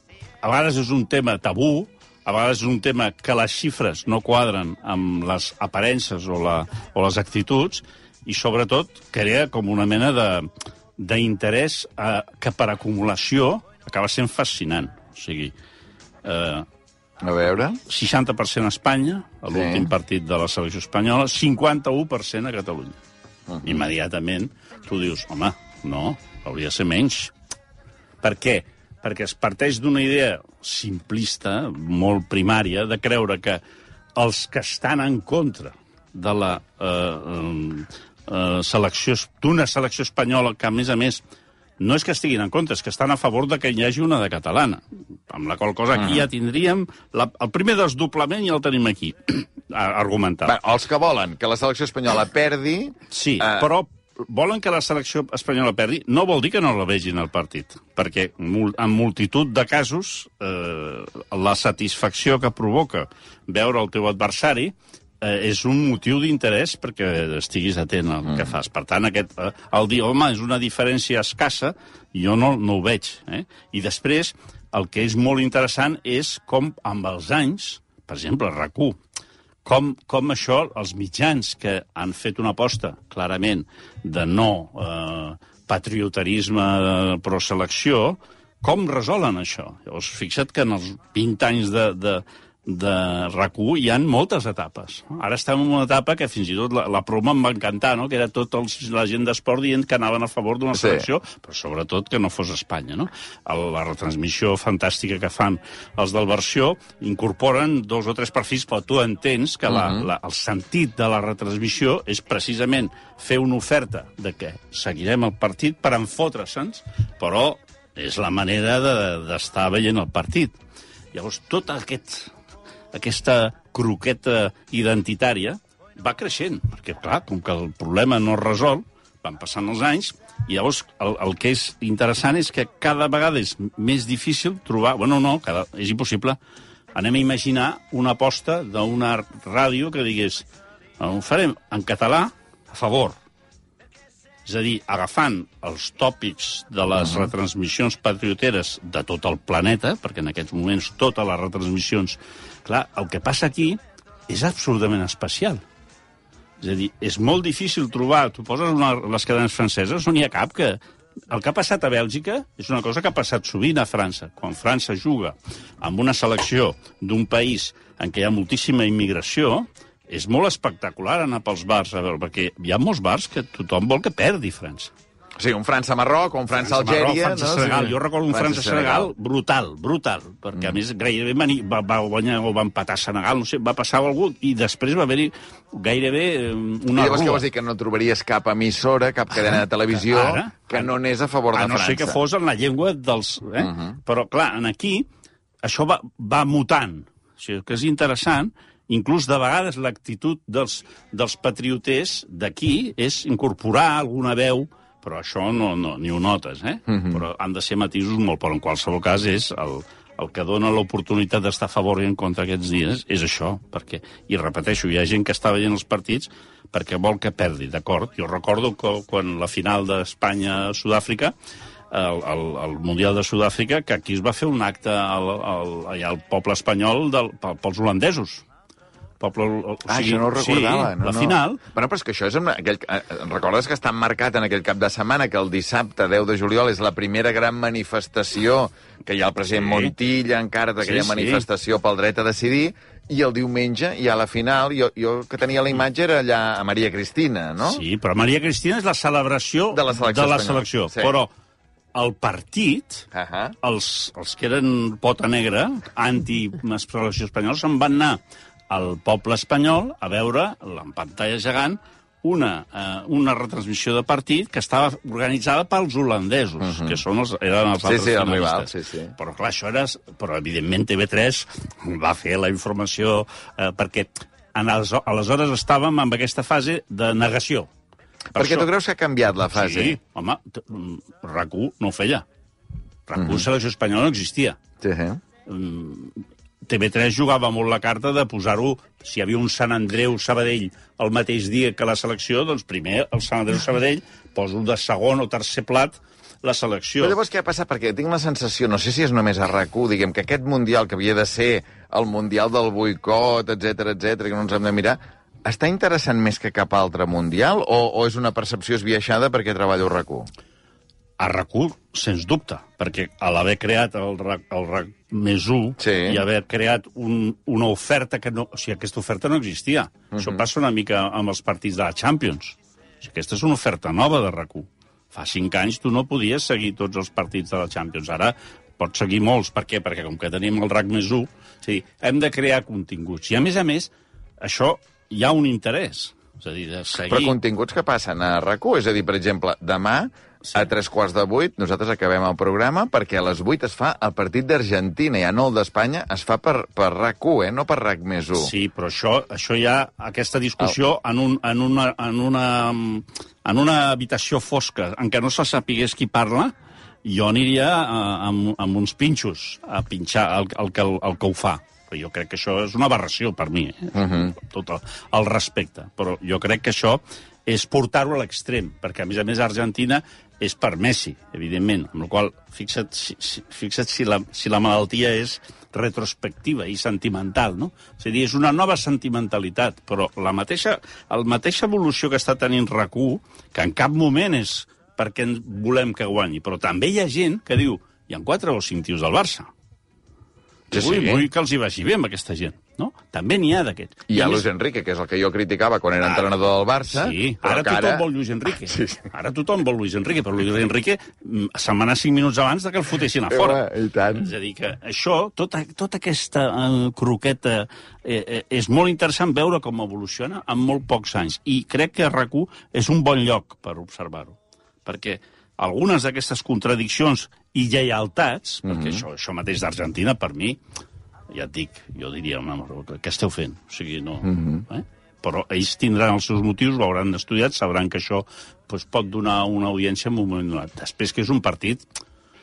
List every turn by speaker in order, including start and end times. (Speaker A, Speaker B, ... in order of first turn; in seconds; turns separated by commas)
Speaker A: 0.4-15.5, Speaker A: 16.2-16.7, Speaker B: 17.2-17.8, Speaker A: 17.9-22.9, Speaker B: 19.5-19.9, Speaker B: 23.5-23.8, Speaker A: 23.6-27.3, Speaker A: 28.2-33.6, Speaker A: 34.2-41.2, Speaker A: 41.8-50.6, Speaker B: 46.0-46.2, Speaker B: 50.5-53.7, Speaker A: 53.1-79.0, Speaker A: 79.6-120.6, Speaker B: 100.7-101.1, Speaker B: 109.7-110.1, Speaker A: 121.1-122.3, Speaker A: 122.9-136.4, Speaker A: 136.9-140.5, Speaker A: 141.0-143.2, Speaker A: 144.4-155.6, Speaker A: 156.6-160.8, Speaker A: 161.3-174.9, Speaker B: 175.4-179.1, Speaker A: 176.6-187.5, Speaker B: 186.9-192.2, Speaker A: 189.4-190.9, Speaker A: 191.5-195.1, Speaker B: 193.6-194.0, Speaker A: 195.6-221.3, Speaker A: 221.9-228.4, Speaker A: 229.2-231.6, Speaker B: 229.9-247.8, Speaker A: 239.5-239.9, Speaker A: 240.8-241.5, Speaker A: 247.6-251.3, Speaker B: 249.7-251.2, Speaker A: 251.9-253.1, Speaker B: 253.1-253.6, Speaker A: 253.6-277.7, Speaker B: 266.6-267.0, Speaker B: 267.9-269.1, Speaker A: 278.3-278.7, Speaker B: 278.4-280.0, Speaker A: 279.5-282.2, Speaker A: 283.1-284.6, Speaker B: 283.1-283.4, Speaker B: 284.8-285.2, Speaker A: 285.5-297.2, Speaker B: 297.0-310.3, Speaker A: 311.2-337.4, Speaker B: 315.8-316.2, Speaker B: 320.1-320.4, Speaker B: 337.1-348.5, Speaker A: 348.4-356.5, Speaker A: 357.1-389.5, Speaker B: 363.9-364.3, Speaker A: 390.7-394.4, Speaker B: 390.7-391.3, Speaker B: 394.1-398.0, Speaker A: 396.0-396.3, Speaker A: 396.9-403.6, Speaker B: 398.6-399.0, Speaker B: 403.3-404.3, Speaker A: 404.1-420.6, Speaker B: 418.6-419.0, Speaker A: 421.3-431.9, Speaker B: 424.2-424.6